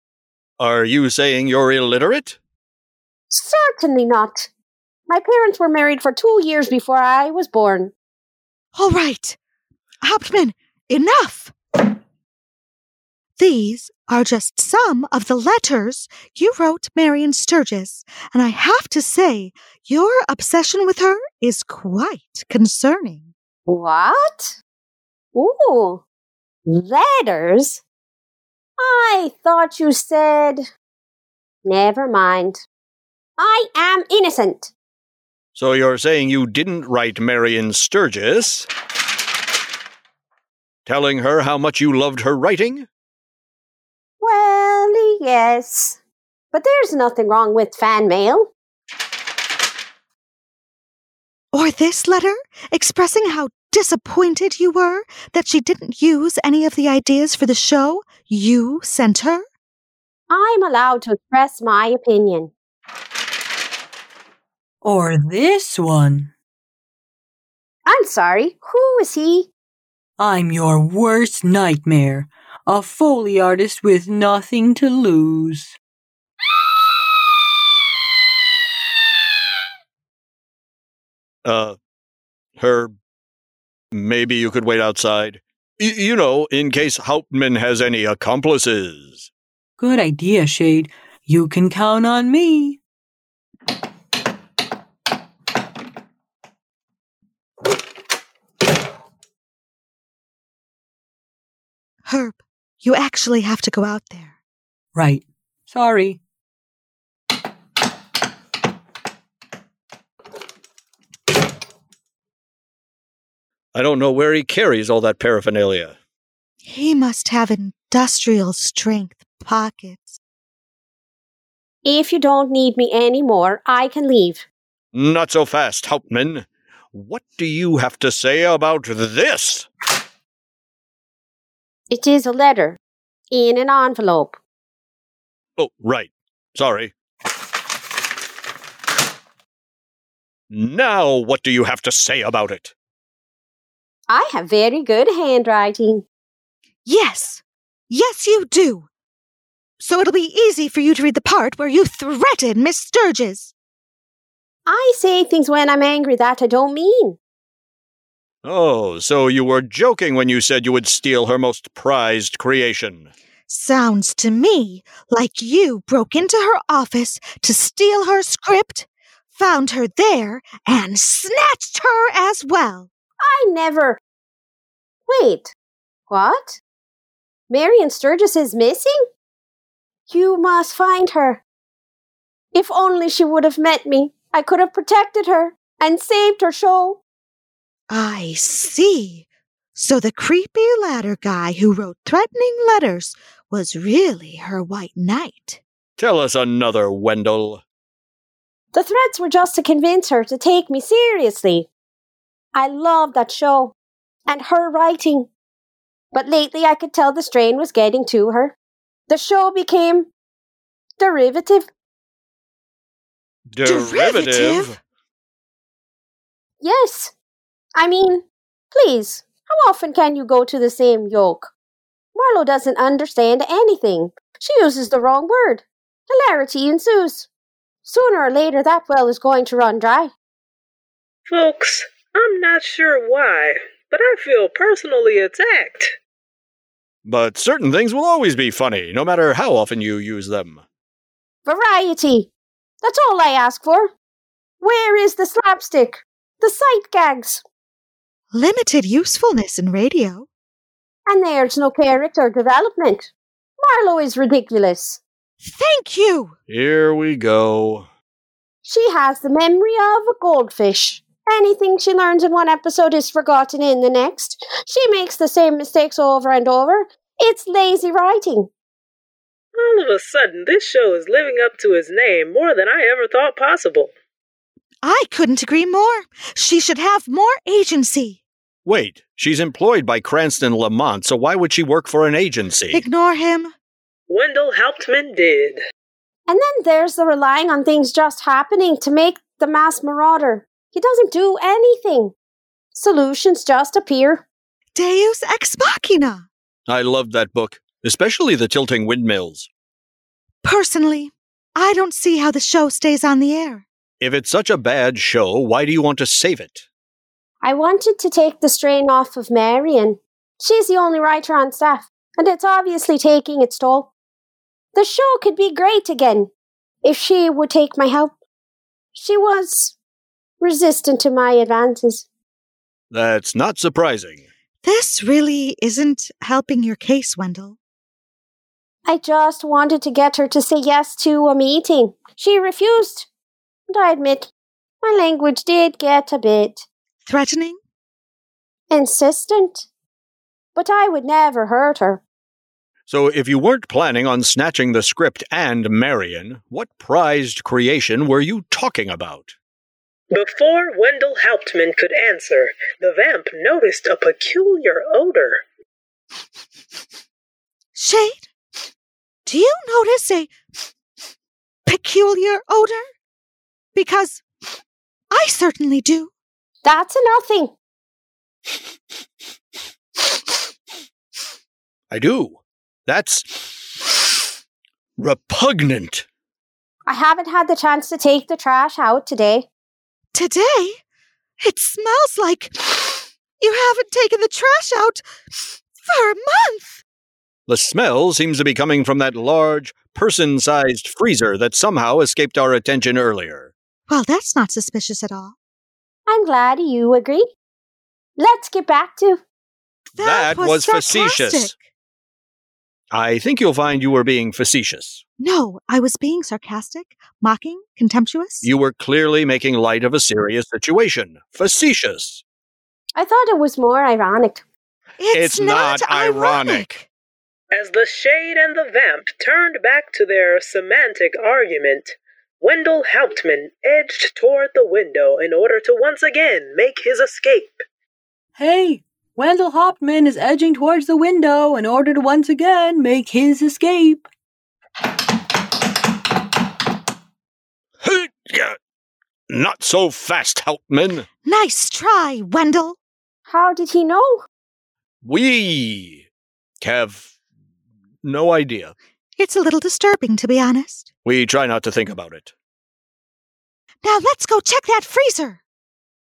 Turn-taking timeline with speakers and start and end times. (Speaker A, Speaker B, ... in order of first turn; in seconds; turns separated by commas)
Speaker A: 0.6-2.4, Speaker B: 3.3-4.5, Speaker B: 5.1-7.9, Speaker C: 8.7-9.4, Speaker C: 10.0-11.5, Speaker C: 13.4-23.3, Speaker B: 23.7-24.6, Speaker B: 25.3-26.0, Speaker B: 26.6-27.8, Speaker B: 28.8-30.7, Speaker B: 31.6-32.6, Speaker B: 33.4-34.7, Speaker A: 35.5-38.7, Speaker A: 40.8-42.9, Speaker B: 44.2-46.0, Speaker B: 46.5-48.5, Speaker C: 51.5-59.5, Speaker B: 60.3-62.5, Speaker D: 64.8-66.3, Speaker B: 67.8-69.5, Speaker D: 70.2-75.8, Speaker A: 81.4-81.8, Speaker A: 82.6-82.9, Speaker A: 83.9-89.3, Speaker D: 89.8-92.8, Speaker C: 102.0-104.3, Speaker D: 104.9-106.2, Speaker A: 113.7-116.0, Speaker C: 116.6-120.2, Speaker B: 121.8-124.4, Speaker A: 124.9-129.7, Speaker B: 131.9-132.8, Speaker B: 133.3-134.4, Speaker A: 135.6-136.9, Speaker A: 140.5-142.7, Speaker B: 144.1-146.0, Speaker C: 146.8-148.9, Speaker C: 149.8-153.5, Speaker B: 154.7-157.2, Speaker A: 158.4-163.1, Speaker C: 163.5-172.9, Speaker B: 173.2-174.0, Speaker B: 175.1-175.5, Speaker B: 176.1-176.6, Speaker B: 177.5-179.0, Speaker B: 180.1-181.4, Speaker B: 182.5-187.0, Speaker C: 187.9-195.6, Speaker A: 196.0-197.6, Speaker B: 198.7-201.7, Speaker B: 202.5-203.7, Speaker B: 204.3-205.3, Speaker B: 206.1-208.5, Speaker B: 209.1-210.1, Speaker B: 211.0-211.7, Speaker A: 213.5-214.8, Speaker C: 213.6-214.8, Speaker B: 216.6-217.1, Speaker B: 217.7-221.5, Speaker B: 222.1-227.3, Speaker B: 227.8-230.1, Speaker E: 231.3-235.9, Speaker A: 237.0-240.6, Speaker B: 241.4-242.3, Speaker B: 242.8-243.9, Speaker B: 244.6-247.4, Speaker C: 248.3-250.3, Speaker B: 251.1-255.0, Speaker C: 255.4-256.3, Speaker A: 256.5-257.9, Speaker B: 258.6-268.5, Speaker E: 269.6-273.9, Speaker C: 274.8-278.2, Speaker A: 278.6-282.8, Speaker C: 282.7-283.5, Speaker E: 284.1-285.6, Speaker B: 286.3-292.1, Speaker B: 292.7-294.2, Speaker C: 294.7-296.3, Speaker A: 296.7-299.5, Speaker C: 300.4-303.6, Speaker A: 304.0-306.6, Speaker B: 307.4-313.9, Speaker B: 314.7-316.3, Speaker B: 316.8-318.1, Speaker B: 318.9-319.8, Speaker B: 320.4-322.1, Speaker A: 322.9-324.2, Speaker C: 324.6-327.6, Speaker B: 328.9-333.1, Speaker B: 333.7-334.3, Speaker B: 334.8-336.6, Speaker C: 337.0-337.6, Speaker B: 338.7-339.6, Speaker B: 340.5-342.0, Speaker A: 342.9-349.3, Speaker E: 350.1-355.4, Speaker C: 357.7-358.3, Speaker C: 359.2-360.3, Speaker C: 361.6-362.9, Speaker C: 363.7-364.2, Speaker C: 365.1-366.1, Speaker B: 366.6-367.5, Speaker A: 371.9-373.8, Speaker A: 375.0-376.1, Speaker B: 376.9-379.5, Speaker C: 380.1-380.8, Speaker C: 381.4-386.8, Speaker A: 387.5-393.5, Speaker C: 393.9-395.3, Speaker B: 396.1-397.3, Speaker B: 398.2-399.2, Speaker A: 399.9-401.5, Speaker C: 399.9-401.6, Speaker A: 402.9-405.0, Speaker C: 405.2-408.5, Speaker A: 408.4-412.2, Speaker B: 412.9-414.4, Speaker C: 415.0-416.9, Speaker A: 415.1-416.7, Speaker E: 417.5-427.6, Speaker D: 428.4-434.0, Speaker A: 437.8-438.6, Speaker A: 439.3-441.1, Speaker C: 441.2-442.8, Speaker B: 443.3-444.2, Speaker A: 445.0-446.1, Speaker A: 446.6-447.1, Speaker A: 448.0-448.7, Speaker C: 449.1-450.9, Speaker A: 451.0-452.3, Speaker C: 453.8-455.4